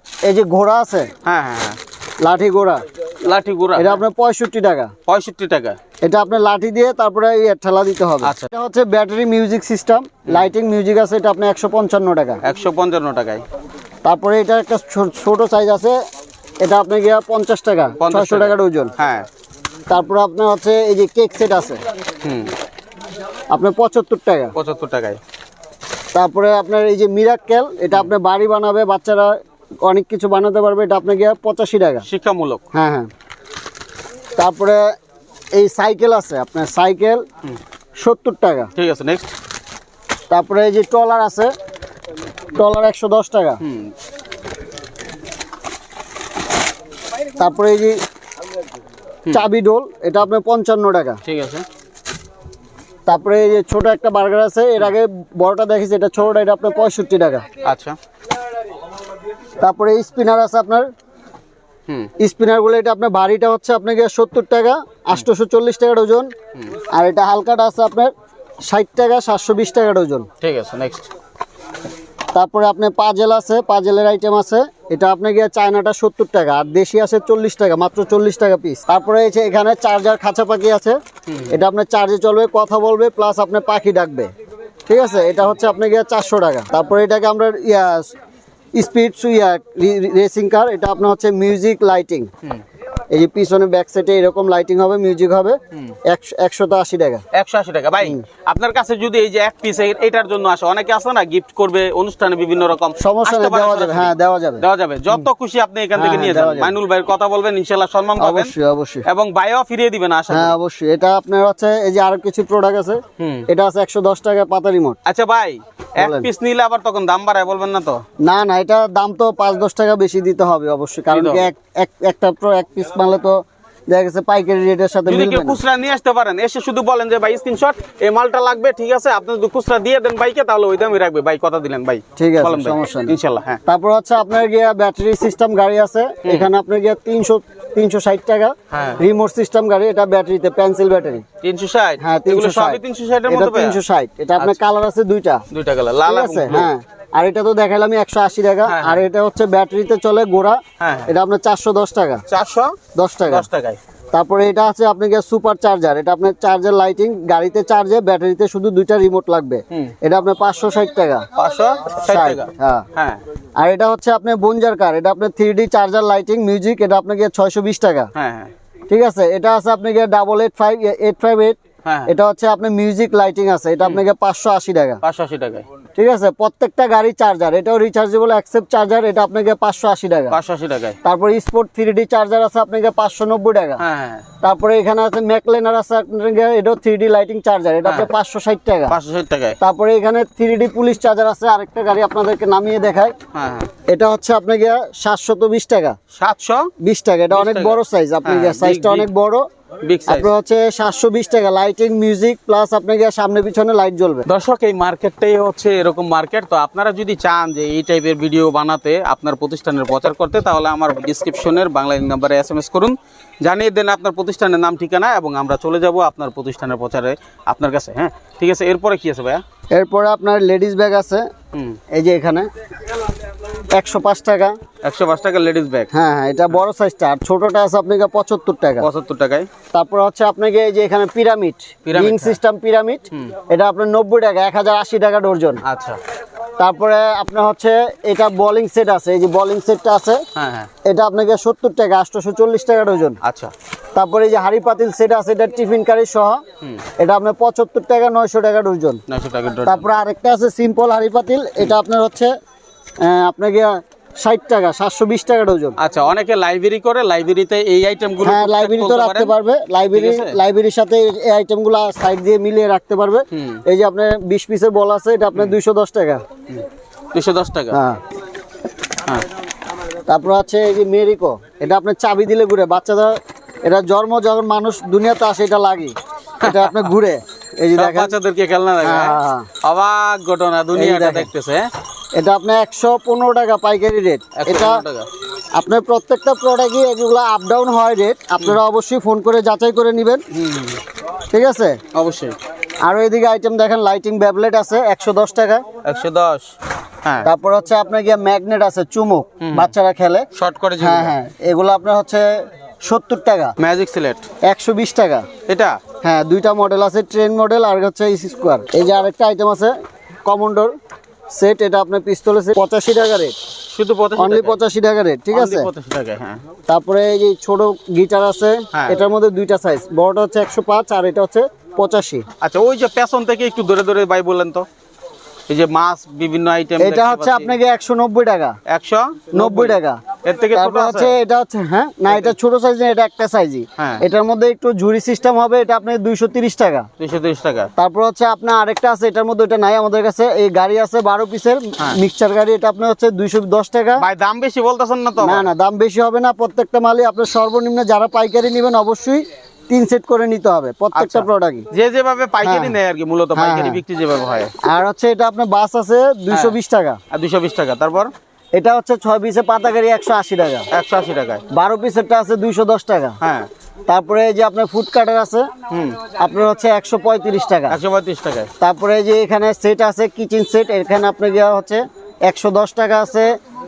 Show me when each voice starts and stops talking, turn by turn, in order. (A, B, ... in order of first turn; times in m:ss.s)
0:00.2-0:01.1 A
0:01.2-0:01.8 B
0:02.2-0:02.8 A
0:03.2-0:04.0 B
0:03.8-0:04.9 A
0:05.0-0:05.8 B
0:06.0-0:12.4 A
0:08.2-0:08.5 B
0:12.4-0:13.4 B
0:14.0-0:16.0 A
0:16.6-0:18.9 A
0:18.0-0:19.3 B
0:19.9-0:21.8 A
0:22.2-0:22.5 B
0:23.5-0:24.5 A
0:24.5-0:25.2 B
0:26.1-0:32.0 A
0:32.0-0:32.6 B
0:32.7-0:33.1 A
0:34.4-0:34.9 A
0:35.5-0:37.2 A
0:38.0-0:38.7 A
0:38.7-0:39.3 B
0:40.3-0:41.5 A
0:42.5-0:43.6 A
0:43.6-0:43.9 B
0:47.4-0:48.0 A
0:49.3-0:51.2 A
0:51.2-0:51.6 B
0:53.1-0:57.4 A
0:57.6-0:58.0 B
0:59.6-1:00.9 A
1:02.2-1:06.3 A
1:06.9-1:08.1 A
1:08.6-1:10.3 A
1:10.4-1:11.1 B
1:12.3-1:24.3 A
1:21.3-1:21.6 B
1:24.9-1:28.1 A
1:28.7-1:32.3 A
1:33.1-1:37.2 A
1:37.3-1:48.5 B
1:43.0-1:44.6 A
1:46.0-1:46.8 A
1:48.2-1:49.0 A
1:49.0-1:50.6 B
1:50.3-1:55.0 A
1:53.2-1:53.5 B
1:55.0-1:58.0 B
1:56.0-1:56.3 A
1:58.2-2:05.6 A
2:01.1-2:01.5 B
2:05.1-2:13.6 B
2:12.2-2:13.1 A
2:13.6-2:21.2 A
2:16.2-2:16.5 B
2:18.7-2:19.0 B
2:21.4-2:23.8 B
2:22.0-2:25.4 A
2:24.4-2:24.6 B
2:25.5-2:26.7 B
2:26.0-2:32.2 A
2:28.6-2:29.0 B
2:30.8-2:31.1 B
2:32.3-2:33.8 B
2:32.9-2:33.4 A
2:34.1-2:41.3 A
2:41.3-2:43.2 B
2:42.0-2:42.8 A
2:43.6-2:48.1 A
2:48.1-2:48.5 B
2:48.9-2:55.0 A
2:51.8-2:52.1 B
2:55.0-2:55.6 B
2:56.0-3:00.4 A
3:00.3-3:01.0 B
3:01.0-3:03.8 A
3:03.8-3:04.2 B
3:04.4-3:09.0 A
3:07.8-3:08.1 B
3:08.9-3:09.6 B
3:09.6-3:13.1 A
3:13.3-3:13.7 B
3:13.8-3:16.0 A
3:16.1-3:16.7 B
3:16.8-3:19.4 A
3:17.3-3:19.1 B
3:19.8-3:20.3 B
3:20.0-3:24.3 A
3:24.2-3:39.4 B
3:39.7-3:41.3 A
3:41.5-3:41.8 B
3:41.9-3:42.5 A
3:43.7-3:44.6 A
3:44.8-3:45.9 B
3:45.9-3:48.9 A
3:48.8-3:49.5 B
3:49.7-3:55.6 A
3:51.8-3:52.4 B
3:55.6-3:56.0 B
3:56.6-4:00.2 A
4:00.3-4:00.7 B
4:00.8-4:03.2 A
4:03.2-4:03.5 B
4:03.9-4:06.4 A
4:07.0-4:09.0 A
4:09.1-4:09.8 B
4:09.6-4:12.3 A
4:13.0-4:15.8 A
4:15.8-4:19.3 B
4:18.2-4:26.2 A
4:19.9-4:20.4 B
4:23.3-4:23.6 B
4:26.5-4:27.8 B
4:27.7-4:28.0 A
4:30.1-4:38.1 A
4:36.4-4:36.9 B
4:37.7-4:41.7 B
4:38.8-4:39.5 A
4:40.7-4:41.3 A
4:42.2-4:44.8 A
4:44.4-4:45.1 B
4:45.6-4:50.2 A
4:50.3-4:50.8 B
4:51.3-4:51.8 A
4:51.9-4:52.4 B
4:52.8-4:55.6 A
4:55.8-4:57.3 B
4:57.2-5:00.3 A
4:59.4-4:59.7 B
5:00.3-5:01.2 B
5:00.8-5:02.3 A
5:02.8-5:03.6 A
5:03.6-5:04.2 B
5:04.4-5:05.3 A
5:05.5-5:05.8 B
5:06.0-5:10.7 A
5:11.4-5:13.3 A
5:13.7-5:14.6 B
5:14.2-5:15.7 A
5:15.3-5:16.4 B
5:16.7-5:22.2 A
5:18.7-5:19.0 B
5:22.4-5:24.6 B
5:25.5-5:27.5 B
5:26.8-5:28.6 A
5:28.7-5:31.2 B
5:29.3-5:30.0 A
5:30.5-5:36.9 A
5:32.1-5:32.3 B
5:33.8-5:34.0 B
5:37.0-5:37.7 B
5:37.8-5:44.0 A
5:44.0-5:45.5 B
5:45.2-5:51.7 A
5:50.9-5:54.5 B
5:52.4-5:52.7 A
5:53.3-5:53.8 A
5:54.6-5:57.0 A
5:56.3-5:56.6 B
5:57.1-5:58.1 B
5:58.6-6:00.7 A
6:00.7-6:01.4 B
6:01.5-6:03.2 A
6:03.2-6:03.5 B
6:03.9-6:05.5 A
6:05.7-6:06.0 B
6:06.2-6:07.8 A
6:07.7-6:08.5 B
6:08.6-6:13.3 A